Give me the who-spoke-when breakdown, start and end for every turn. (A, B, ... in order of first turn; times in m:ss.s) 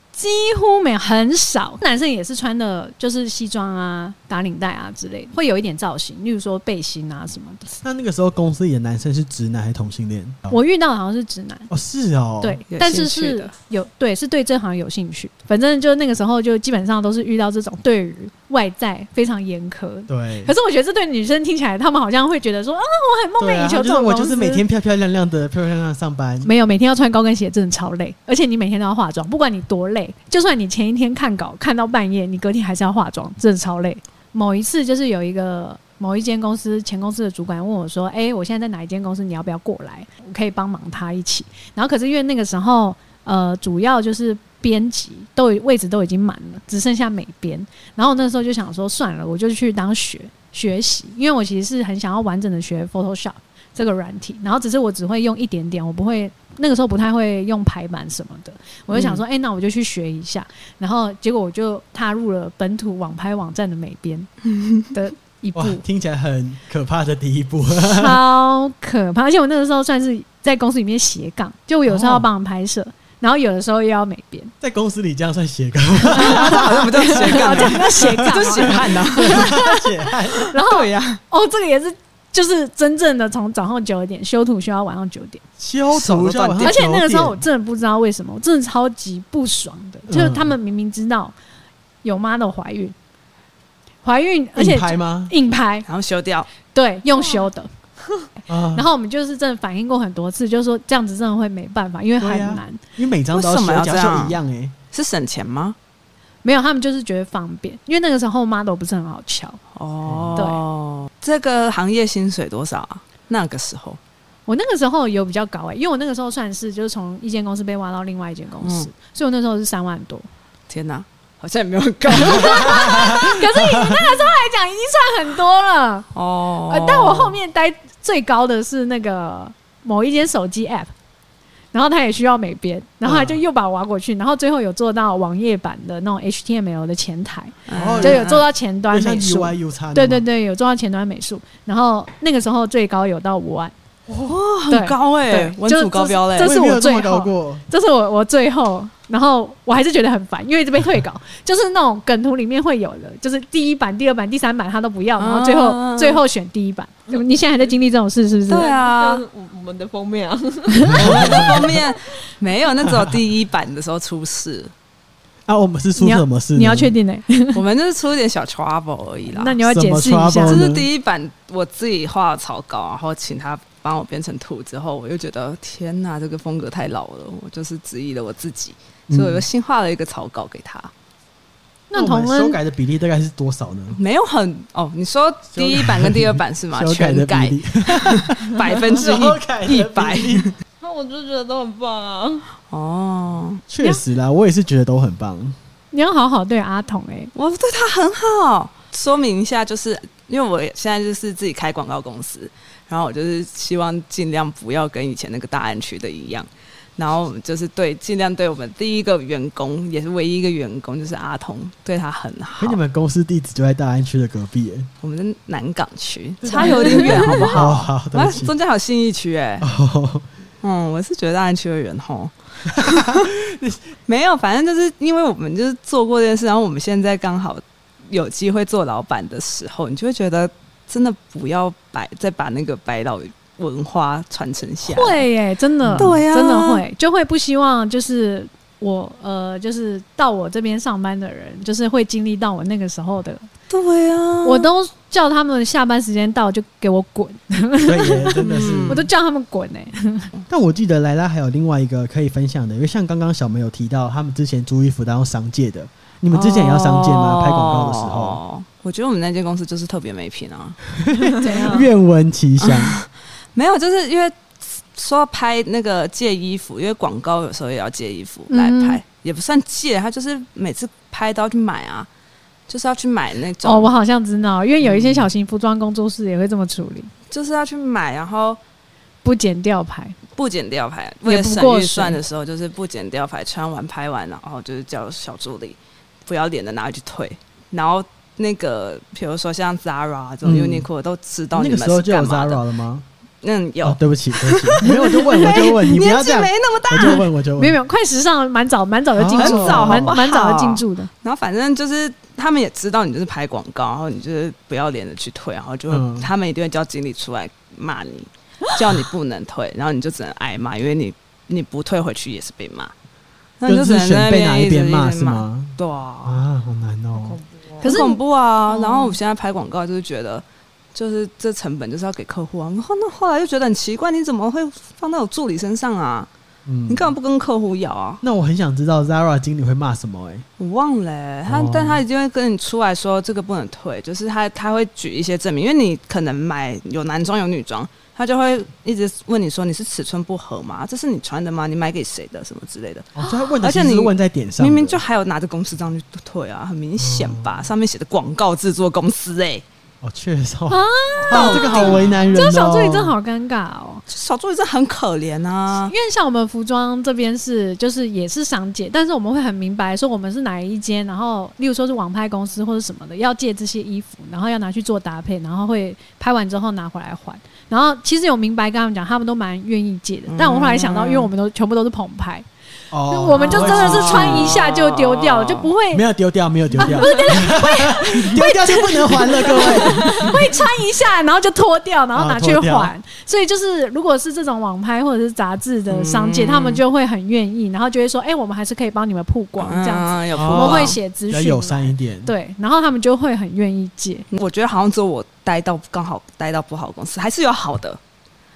0:00.1-0:07.7 A
0:07.8-0:10.6 B
0:10.5-0:11.7 A
0:11.7-0:12.6 B
0:12.4-0:24.6 A
0:12.7-0:13.5 C
0:20.1-0:20.5 B
0:23.4-0:26.5 B
0:26.4-1:04.3 A
0:58.9-0:59.2 C
1:04.6-1:04.8 C
1:04.9-1:05.8 A
1:05.5-1:08.2 B
1:07.8-1:14.5 A
1:11.9-1:12.3 B
1:14.6-1:20.5 B
1:16.2-1:19.8 A
1:16.2-1:19.5 C
1:20.4-1:25.4 A
1:20.6-1:21.2 C
1:25.6-1:27.4 B
1:25.9-1:26.8 C
1:26.6-1:31.3 A
1:30.1-1:30.5 B
1:32.0-1:32.9 A
1:34.0-1:35.8 A
1:34.6-1:35.3 B
1:35.8-1:36.5 C
1:36.7-1:37.7 A
1:38.5-1:38.9 B
1:38.7-1:42.8 A
1:42.2-1:44.7 B
1:43.3-1:44.4 C
1:44.9-1:45.8 C
1:46.4-1:49.6 A
1:49.7-1:54.0 C
1:50.0-1:50.4 B
1:50.4-1:50.6 A
1:54.5-2:00.3 A
1:58.6-1:58.9 C
2:00.7-2:03.2 C
2:02.2-2:06.1 A
2:03.7-2:04.0 B
2:06.1-2:07.4 C
2:06.7-2:10.9 A
2:11.7-2:23.7 A
2:13.0-2:13.4 B
2:17.7-2:18.4 C
2:17.7-2:20.2 B
2:24.1-2:24.3 B
2:24.2-2:26.5 C
2:24.7-2:38.7 A
2:26.4-2:27.6 B
2:35.2-2:36.2 C
2:38.5-2:39.2 C
2:38.5-2:41.6 D
2:40.7-2:41.2 A
2:40.9-2:41.6 B
2:41.0-2:44.7 C
2:42.9-2:43.2 B
2:45.5-2:46.9 B
2:46.0-2:47.6 A
2:47.5-2:49.6 C
2:49.3-2:50.6 A
2:49.6-2:50.8 B
2:50.5-3:00.9 C
2:59.1-2:59.4 B
3:01.9-3:02.6 A
3:01.9-3:04.0 B
3:04.0-3:10.5 C
3:05.5-3:10.5 B
3:10.8-3:12.5 D
3:12.7-3:13.6 C
3:13.7-3:15.6 B
3:15.9-3:17.3 A
3:17.3-3:32.8 C
3:32.6-3:34.9 B
3:35.0-3:39.7 C
3:36.4-3:38.5 B
3:36.5-3:37.5 A
3:39.6-3:40.3 B
3:40.6-3:43.3 C
3:42.8-3:43.8 B
3:44.1-3:55.2 C
3:54.8-4:03.4 A
3:55.8-3:56.2 B
3:56.0-3:56.8 C
4:03.7-4:04.7 C
4:04.4-4:10.3 A
4:07.8-4:09.1 B
4:08.4-4:09.1 C
4:10.5-4:18.4 B
4:16.3-4:20.8 C
4:21.0-4:23.0 B
4:21.4-4:21.9 A
4:22.6-4:32.1 C
4:28.5-4:29.0 A
4:32.7-4:33.9 C
4:33.6-4:37.1 A
4:37.3-4:38.6 C
4:39.2-4:40.2 A
4:40.3-4:52.6 C
4:41.2-4:42.2 A
4:50.4-4:50.9 B
4:51.5-4:53.0 B
4:53.4-4:57.2 C
4:53.8-4:57.8 B
4:57.6-5:01.1 A
4:59.2-5:00.2 B
4:59.4-5:12.9 C
5:05.9-5:06.3 B
5:13.6-5:16.4 C
5:13.6-5:17.4 B
5:17.2-5:17.9 D
5:17.8-5:18.2 A
5:17.8-5:26.3 C
5:26.6-5:27.1 B
5:26.9-5:28.2 C
5:28.2-5:30.4 B
5:30.6-5:49.6 C
5:31.5-5:32.0 B
5:43.2-5:45.0 B
5:47.0-5:47.6 B
5:50.0-5:53.1 B
5:50.7-5:54.0 A
5:51.3-5:52.1 C
5:54.1-5:55.9 C
5:55.7-6:12.4 A
6:10.3-6:11.3 C
6:12.9-6:14.6 B
6:13.1-6:16.0 A
6:13.4-6:15.7 C
6:15.9-6:20.3 B
6:16.8-6:34.2 A
6:22.1-6:22.9 B
6:25.9-6:26.8 C
6:29.6-6:31.0 C
6:30.3-6:32.3 B
6:34.3-6:38.0 C